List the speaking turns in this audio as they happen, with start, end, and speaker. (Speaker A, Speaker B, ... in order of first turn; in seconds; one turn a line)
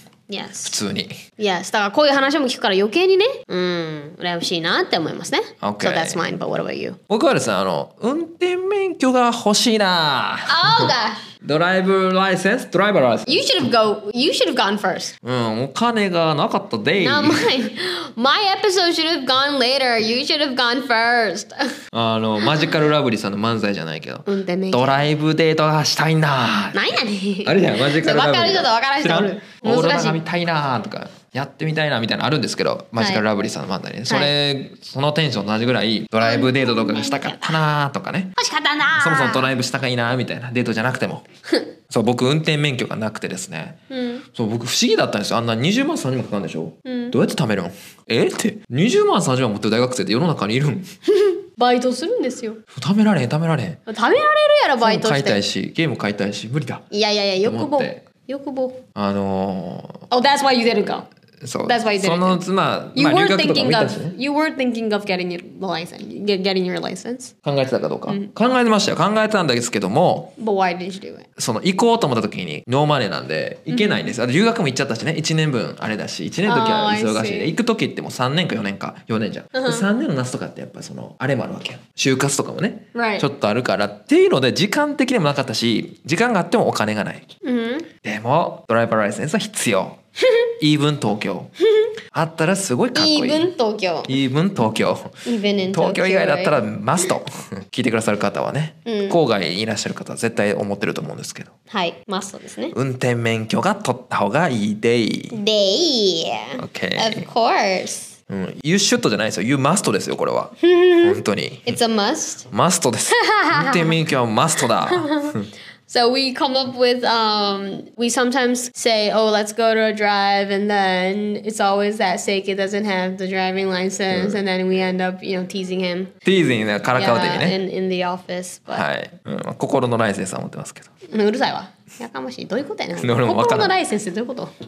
Speaker A: 0.3-0.8
Speaker B: 0.6-1.2
Speaker A: 1.4-7.0
Speaker B: 5.6-6.2
Speaker B: 7.1-13.6
Speaker A: 10.5-11.2
Speaker A: 13.3-15.1
Speaker B: 15.2-17.5
Speaker A: 17.0-21.6
Speaker B: 21.9-38.3
Speaker A: 22.4-22.7
Speaker A: 24.3-25.1
Speaker A: 26.7-30.2
Speaker A: 33.0-33.2
Speaker A: 36.2-37.5
Speaker A: 38.4-39.5
Speaker B: 38.9-41.2
Speaker B: 41.9-43.8
Speaker A: 43.9-44.2
Speaker B: 44.3-50.9
Speaker A: 46.8-47.1
Speaker A: 51.2-52.6
Speaker B: 52.7-53.8
Speaker A: 53.9-55.4
Speaker B: 54.8-56.8
Speaker A: 56.9-58.8
Speaker B: 57.4-58.0
Speaker B: 59.0-60.0
Speaker A: 60.1-61.1
Speaker B: 61.4-64.1
Speaker A: 61.6-62.4
Speaker A: 62.9-67.3
Speaker B: 67.4-70.3
Speaker A: 68.1-68.3
Speaker A: 70.4-71.2
Speaker B: 71.4-87.2
Speaker A: 73.7-74.0
Speaker A: 76.5-77.5
Speaker A: 79.5-79.9
Speaker A: 82.9-83.3
Speaker A: 87.4-87.9
Speaker B: 88.0-90.0
Speaker B: 90.6-91.5
Speaker B: 92.1-93.5
Speaker A: 92.9-94.2
Speaker B: 94.1-101.5
Speaker A: 95.2-97.1
Speaker A: 98.8-99.2
Speaker A: 101.7-102.7
Speaker B: 102.7-105.4
Speaker A: 105.3-108.1
Speaker B: 106.6-107.3
Speaker B: 108.3-111.8
Speaker A: 110.6-112.5
Speaker B: 112.5-115.5
Speaker A: 113.1-114.0
Speaker A: 114.7-126.1
Speaker B: 124.1-124.4
Speaker B: 126.2-127.6
Speaker A: 126.9-128.8
Speaker B: 128.7-130.9
Speaker A: 131.1-134.5
Speaker B: 133.0-133.8